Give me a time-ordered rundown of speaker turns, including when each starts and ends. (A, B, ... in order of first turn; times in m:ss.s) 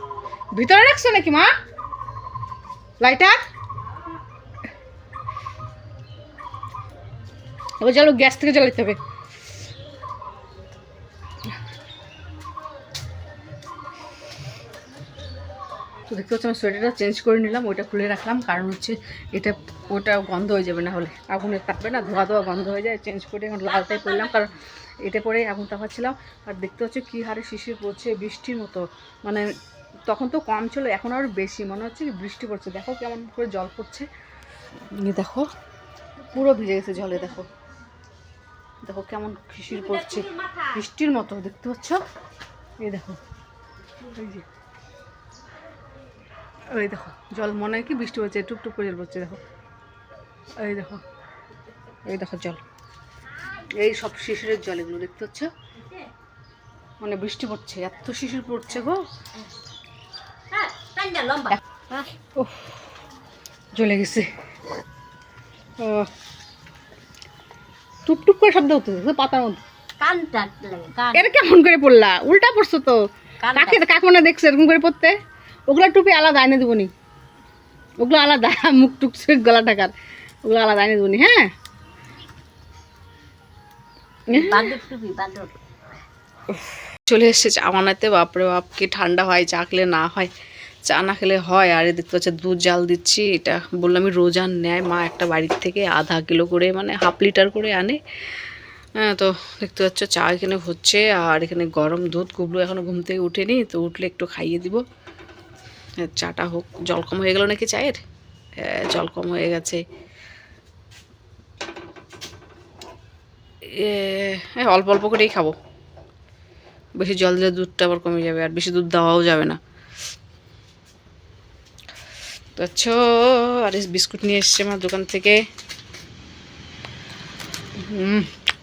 0:00.5-0:01.5 A
0:03.0-0:03.4 A
0:07.8-0:09.0 A
0:16.1-0:29.5 A
0:23.9-0:24.3 B
0:30.1-0:34.1 A
0:34.9-0:35.5 A
0:36.3-0:37.5 A
0:38.8-0:42.0 A
0:39.7-0:40.8 B
0:42.8-0:43.2 A
0:44.1-0:44.4 A
0:46.7-0:49.4 A
0:50.6-0:51.0 A
0:52.0-0:52.6 A
0:53.8-0:55.5 A
0:57.0-0:59.0 A
1:00.5-1:02.1 B
1:02.4-1:02.7 A
1:03.7-1:04.3 A
1:05.8-1:06.1 A
1:08.0-1:09.6 A
1:10.0-1:11.3 B
1:11.1-1:15.2 A
1:13.4-1:13.9 B
1:15.7-1:16.9 A
1:18.0-1:19.9 A
1:20.4-1:21.5 A
1:24.3-1:24.7 A
1:24.3-1:25.6 B
1:27.1-1:30.3 A
1:30.8-1:38.0 A
1:39.0-1:44.8 A
1:46.0-1:48.0 A
1:48.6-1:49.8 A
1:53.7-1:55.6 A
1:57.0-1:59.6 A
2:02.6-2:05.4 A
2:07.8-2:08.3 A